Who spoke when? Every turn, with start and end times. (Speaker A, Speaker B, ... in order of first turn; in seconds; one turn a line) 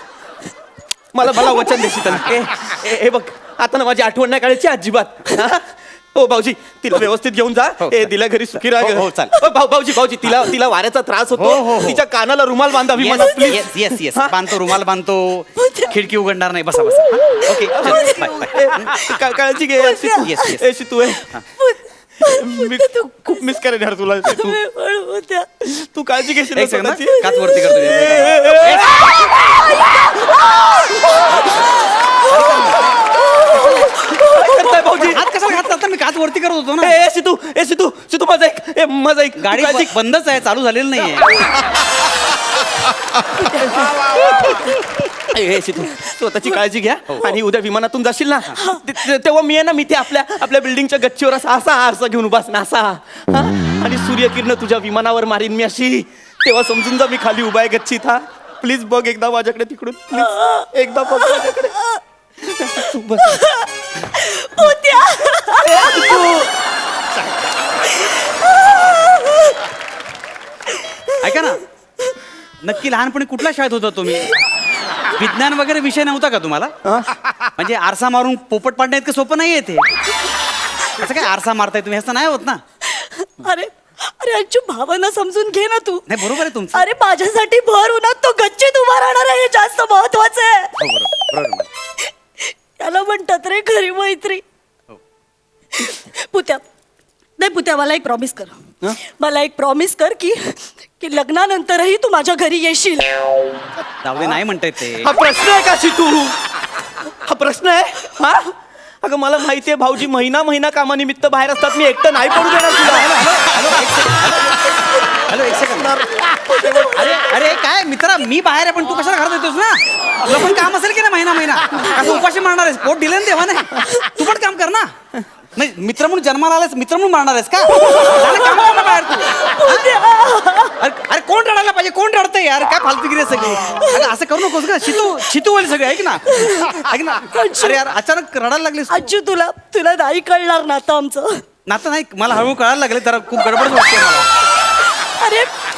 Speaker A: 1.1-14.4
Speaker B: 7.8-9.4
Speaker B: 11.3-12.1
Speaker B: 12.9-19.1
Speaker C: 13.2-13.6
Speaker C: 15.6-15.9
Speaker C: 17.1-19.1
Speaker A: 17.7-21.3
Speaker C: 19.8-20.4
Speaker B: 20.2-20.6
Speaker C: 21.6-23.6
Speaker A: 22.3-24.6
Speaker C: 24.2-25.5
Speaker A: 25.6-29.2
Speaker B: 26.6-29.1
Speaker C: 27.6-28.0
Speaker C: 29.0-34.7
Speaker B: 32.2-32.9
Speaker A: 34.2-35.3
Speaker B: 34.7-37.0
Speaker A: 36.8-39.9
Speaker B: 39.4-41.5
Speaker C: 43.4-43.8
Speaker A: 43.6-44.8
Speaker A: 45.3-61.8
Speaker C: 48.6-48.8
Speaker C: 60.2-60.7
Speaker C: 61.4-62.0
Speaker A: 62.4-63.4
Speaker C: 63.2-66.2
Speaker A: 65.6-66.5
Speaker C: 68.8-69.5
Speaker B: 71.2-71.6
Speaker B: 72.6-74.4
Speaker B: 75.1-76.7
Speaker A: 76.8-77.1
Speaker B: 77.4-79.9
Speaker B: 80.9-82.6
Speaker C: 82.8-90.8
Speaker B: 86.1-86.8
Speaker B: 90.8-91.7
Speaker C: 92.4-94.4
Speaker C: 95.8-96.6
Speaker C: 97.4-103.1
Speaker B: 104.0-105.1
Speaker A: 105.0-106.4
Speaker A: 107.2-114.3
Speaker B: 112.8-116.0
Speaker A: 115.4-117.1
Speaker C: 116.3-117.1
Speaker B: 116.9-124.9
Speaker B: 125.5-129.9
Speaker C: 127.7-130.7
Speaker B: 130.8-139.1
Speaker C: 133.6-134.1
Speaker C: 136.3-137.8
Speaker C: 138.9-141.4
Speaker B: 141.7-144.3
Speaker C: 144.9-145.5